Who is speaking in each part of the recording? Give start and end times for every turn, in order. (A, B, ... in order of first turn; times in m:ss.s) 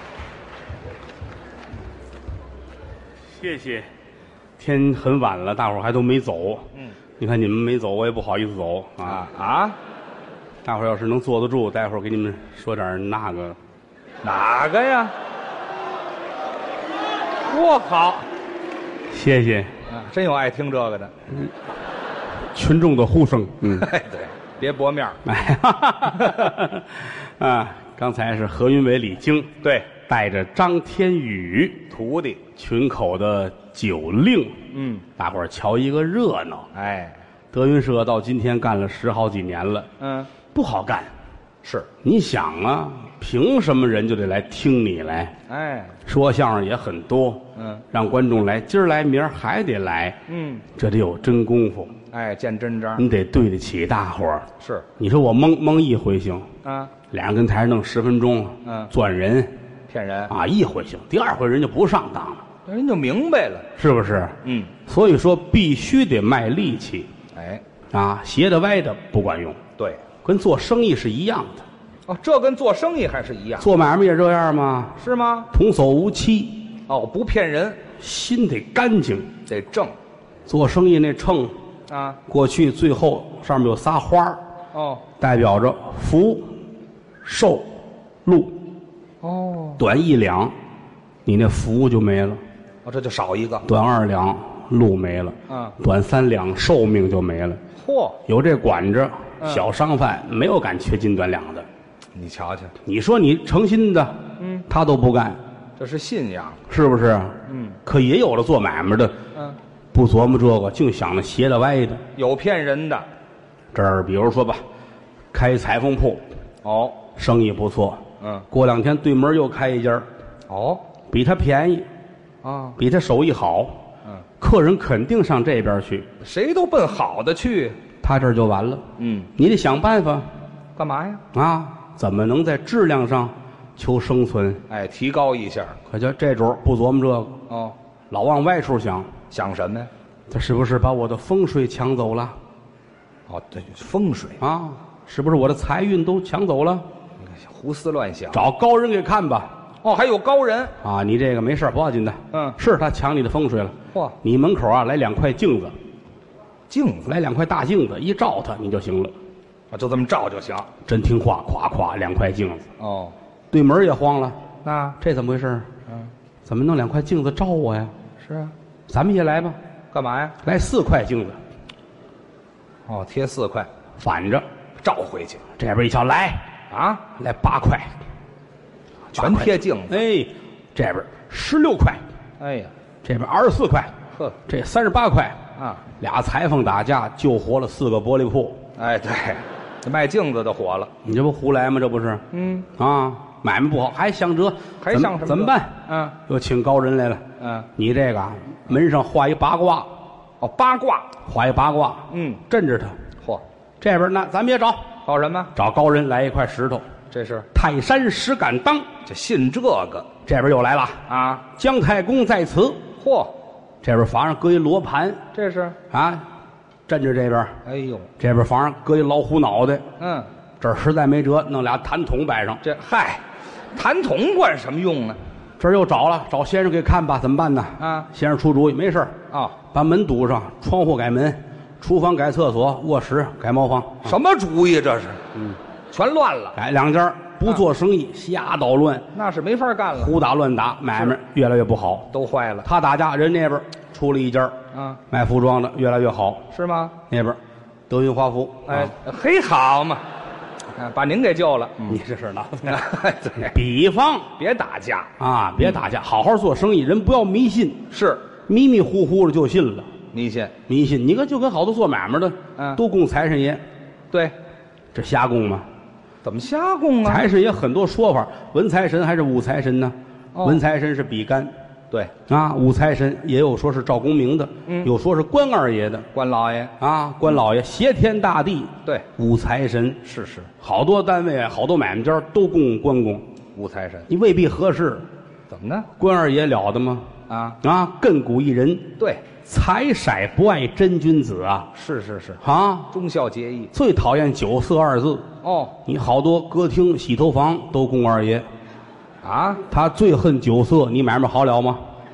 0:03.3-0:03.9 A
0:04.6-0:06.7 A
0:07.2-0:09.2 A
0:09.0-0:09.8 B
0:10.6-0:13.6 A
0:14.2-0:15.1 B
0:17.5-0:18.3 B
0:19.1-0:19.7 A
0:19.9-0:21.1 B
0:22.5-0:23.9 A
0:23.7-0:25.2 B
0:25.2-0:31.8 A
0:26.2-0:26.5 B
0:29.6-0:29.9 B
0:31.9-0:32.4 B
0:32.6-0:34.6 A
0:34.7-0:35.1 B
0:35.2-0:36.7 A
0:36.7-0:37.2 B
0:37.5-0:39.9 A
0:40.0-0:40.3 B
0:40.5-0:41.1 A
0:41.6-0:41.9 B
0:42.0-0:45.3 A
0:45.5-0:46.0 B
0:46.1-0:50.2 A
0:47.6-0:47.8 B
0:50.3-0:50.7 B
0:50.7-0:51.9 A
0:52.1-0:53.0 B
0:53.0-0:56.5 A
0:54.6-0:54.9 B
0:56.6-0:56.9 B
0:57.1-0:59.5 A
0:58.6-0:58.9 B
0:59.9-1:00.3 B
1:00.3-1:02.4 A
1:02.7-1:03.7 B
1:03.8-1:07.1 A
1:04.4-1:04.7 B
1:07.3-1:07.6 B
1:07.9-1:09.6 A
1:09.8-1:10.0 B
1:10.2-1:11.6 A
1:12.1-1:13.7 B
1:13.6-1:15.0 A
1:15.0-1:15.5 B
1:15.5-1:16.6 A
1:16.9-1:17.8 B
1:18.0-1:19.3 A
1:19.5-1:20.0 B
1:20.5-1:21.6 A
1:21.9-1:22.2 B
1:22.3-1:24.4 A
1:24.7-1:25.0 B
1:25.2-1:26.5 A
1:27.2-1:27.7 A
1:28.2-1:28.6 A
1:29.2-1:29.8 B
1:29.8-1:30.6 A
1:31.2-1:32.4 A
1:32.8-1:33.6 B
1:33.6-1:37.6 A
1:35.5-1:35.8 B
1:37.7-1:38.2 B
1:38.3-1:41.7 A
1:39.4-1:39.6 B
1:42.2-1:42.7 B
1:42.8-1:45.4 A
1:44.4-1:44.6 B
1:45.8-1:46.6 B
1:46.7-1:49.2 A
1:47.5-1:47.8 B
1:49.9-1:52.0 A
1:52.2-1:53.1 B
1:53.7-1:54.6 A
1:55.3-1:56.2 A
1:56.6-1:57.0 B
1:57.2-2:00.1 A
1:58.2-1:58.5 B
2:00.5-2:00.8 B
2:01.1-2:01.9 A
2:02.4-2:02.8 B
2:02.8-2:03.8 A
2:04.4-2:06.1 A
2:06.2-2:07.8 B
2:08.0-2:08.8 A
2:09.0-2:09.3 B
2:09.4-2:10.3 A
2:10.8-2:11.2 B
2:11.3-2:14.6 A
2:14.7-2:15.8 B
2:15.9-2:17.4 A
2:17.5-2:17.8 B
2:18.1-2:19.1 A
2:19.3-2:19.9 B
2:20.3-2:22.4 A
2:23.3-2:24.4 B
2:24.4-2:26.8 A
2:27.2-2:28.4 B
2:28.3-2:29.5 A
2:29.8-2:30.7 B
2:30.8-2:35.8 A
2:32.3-2:32.6 B
2:36.7-2:37.1 B
2:37.1-2:39.2 A
2:39.7-2:40.7 B
2:40.8-2:42.7 A
2:42.8-2:43.1 B
2:43.5-2:44.4 A
2:44.6-2:45.0 B
2:45.0-2:45.7 A
2:46.4-2:47.9 A
2:48.2-2:48.5 B
2:48.9-2:49.6 A
2:49.9-2:50.4 B
2:50.4-2:51.4 A
2:52.9-2:53.7 B
2:54.0-2:54.5 A
2:54.8-2:55.4 B
2:55.6-2:56.5 A
2:56.7-2:57.0 B
2:57.2-2:58.0 A
2:59.1-3:00.0 B
2:59.2-3:02.0 A
3:02.4-3:02.7 B
3:03.0-3:03.9 A
3:04.4-3:05.4 A
3:05.6-3:05.8 B
3:06.0-3:08.6 A
3:08.8-3:10.9 B
3:11.0-3:17.2 A
3:12.3-3:12.7 B
3:14.8-3:16.2 B
3:17.4-3:17.7 B
3:17.8-3:19.9 A
3:20.4-3:21.1 B
3:21.2-3:23.0 A
3:22.1-3:22.4 B
3:23.8-3:24.9 A
3:25.0-3:25.5 B
3:25.5-3:26.9 A
3:27.1-3:27.5 B
3:27.5-3:28.9 A
3:29.1-3:30.1 B
3:30.3-3:32.8 A
3:31.1-3:31.4 B
3:33.0-3:33.3 B
3:33.8-3:35.2 A
3:35.3-3:35.8 B
3:35.9-3:36.3 A
3:36.9-3:37.5 A
3:37.6-3:38.1 B
3:38.2-3:39.9 A
3:40.0-3:40.3 B
3:40.6-3:42.6 A
3:42.6-3:43.2 B
3:43.7-3:45.2 B
3:45.6-3:49.1 A
3:47.8-3:48.1 B
3:49.3-3:49.6 B
3:49.7-3:54.1 A
3:54.0-3:55.2 B
3:55.9-3:56.6 B
3:56.6-3:59.1 A
3:59.1-4:00.2 B
4:00.0-4:02.1 A
4:02.1-4:02.7 B
4:02.6-4:04.6 A
4:04.7-4:05.0 B
4:05.1-4:06.5 A
4:06.5-4:07.0 B
4:07.1-4:08.9 A
4:08.7-4:10.0 B
4:10.8-4:12.0 B
4:11.9-4:12.8 A
4:12.7-4:13.6 B
4:13.4-4:14.3 A
4:14.4-4:15.1 B
4:15.2-4:17.8 A
4:17.9-4:18.2 B
4:18.5-4:19.9 A
4:20.1-4:20.5 B
4:20.7-4:23.6 A
4:24.9-4:25.7 A
4:26.2-4:27.3 B
4:27.0-4:31.5 A
4:30.3-4:30.6 B
4:32.3-4:36.1 A
4:36.1-4:36.7 B
4:36.8-4:40.0 A
4:40.0-4:40.5 B
4:40.6-4:43.2 A
4:43.6-4:44.1 B
4:44.1-4:45.1 A
4:45.5-4:45.9 B
4:46.0-4:47.1 A
4:47.3-4:47.6 B
4:47.6-4:51.7 A
4:49.0-4:49.2 B
4:51.7-4:53.7 B
4:52.4-4:52.9 A
4:53.7-4:55.3 A
4:55.4-4:55.8 B
4:55.8-4:58.5 A
4:59.2-4:59.6 B
4:59.7-5:01.8 A